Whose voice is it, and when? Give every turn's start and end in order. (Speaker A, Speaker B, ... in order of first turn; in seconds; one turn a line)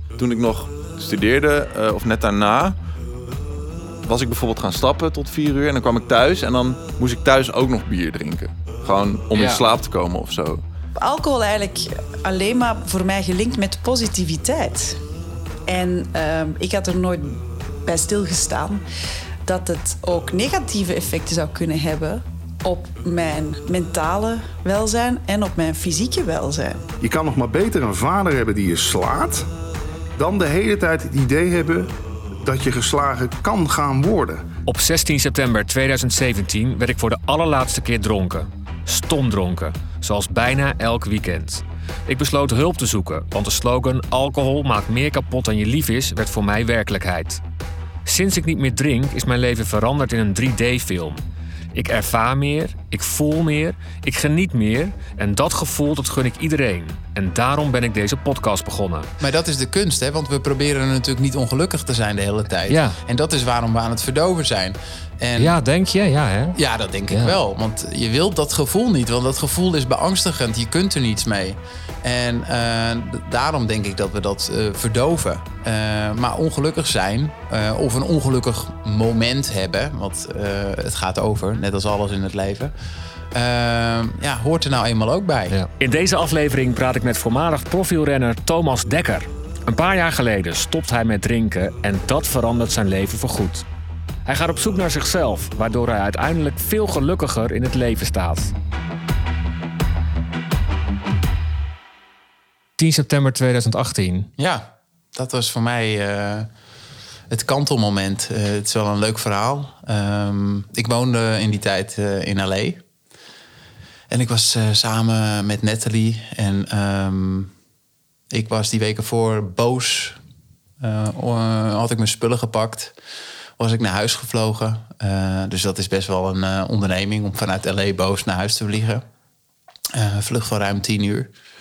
Speaker A: 0.2-2.8
Speaker A: 4.0-10.6
Speaker B: 9.3-9.6
Speaker C: 11.0-15.0
Speaker C: 15.7-18.8
Speaker C: 19.4-26.9
Speaker D: 27.0-29.4
Speaker D: 30.2-31.9
Speaker D: 32.4-34.4
Speaker B: 34.6-47.4
Speaker B: 48.0-51.2
Speaker B: 51.7-59.1
Speaker E: 59.2-65.6
Speaker B: 62.7-63.0
Speaker B: 65.4-66.6
Speaker E: 66.5-82.7
Speaker B: 67.1-67.3
Speaker E: 83.3-85.6
Speaker B: 85.5-93.7
Speaker B: 94.2-98.5
Speaker B: 102.8-104.3
Speaker E: 104.4-106.5
Speaker E: 107.3-112.8
Speaker E: 114.1-117.5
Speaker E: 118.3-120.2
Speaker E: 120.8-122.9
Speaker E: 123.6-129.0
Speaker E: 129.9-131.3